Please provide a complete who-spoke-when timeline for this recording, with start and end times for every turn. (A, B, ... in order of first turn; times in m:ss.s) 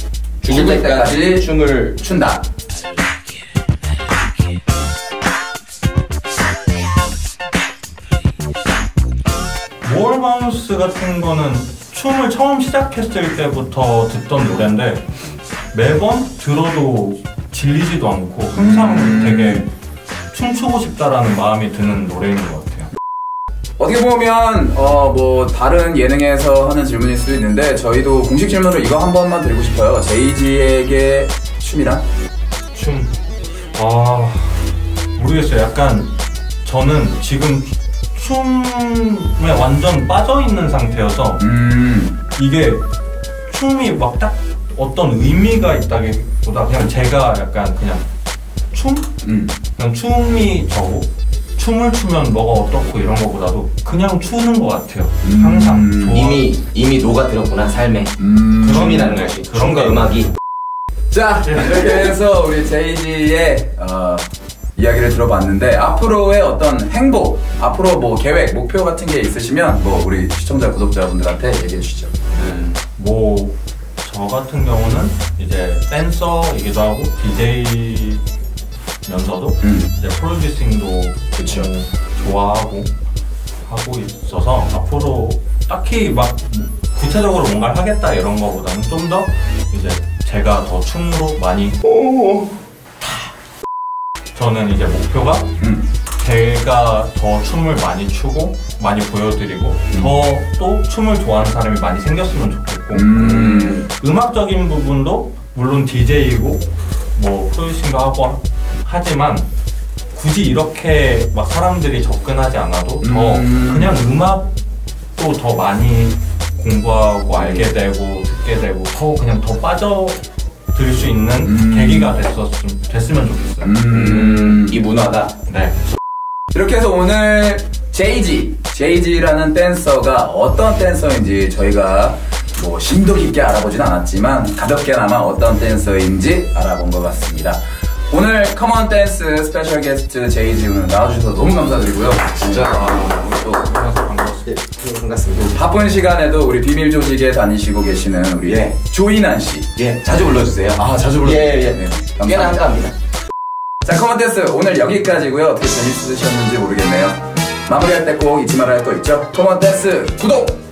0:00.4-0:02.0 A
0:00.5-0:02.4 B
0:09.8-0:15.0 C
0:15.7-0:19.7 C
0:18.5-0:19.6 B
0:20.3-0:22.9 C
0:23.8-0:32.0 B
0:32.7-0:33.1 C
0:33.7-0:41.4 C
0:41.4-0:42.2 B
0:42.4-0:42.8 C
0:43.5-0:48.0 C
0:48.7-0:49.1 C
0:49.2-0:49.5 B
0:49.8-0:56.4 C
0:55.2-0:56.3 B
0:56.1-1:00.3 A
0:58.2-0:59.3 B
0:58.6-1:00.3 C
1:01.1-1:04.2 B
1:04.8-1:12.7 B
1:12.4-1:12.8 A
1:13.0-1:18.2 C
1:19.0-1:22.9 C
1:19.6-1:19.9 B
1:21.3-1:21.7 B
1:23.6-1:31.8 C
1:32.0-1:32.4 B
1:34.3-1:35.5 C
1:35.6-1:35.8 B
1:36.2-1:43.1 C
1:39.9-1:40.2 B
1:42.9-1:43.8 B
1:43.1-1:43.9 A
1:43.9-1:49.5 C
1:50.1-1:54.5 C
1:53.0-1:54.0 B
1:55.2-2:00.2 C
1:57.4-1:57.7 A
2:00.7-2:03.7 C
2:01.4-2:02.1 B
2:03.6-2:04.8 B
2:03.9-2:05.3 A
2:05.5-2:05.9 C
2:06.5-2:22.8 B
2:22.3-2:23.7 A
2:22.6-2:24.5 C
2:24.4-2:25.6 A
2:25.4-2:29.7 B
2:28.4-2:28.8 A
2:29.8-2:32.9 A
2:30.8-2:32.6 B
2:33.8-2:40.6 B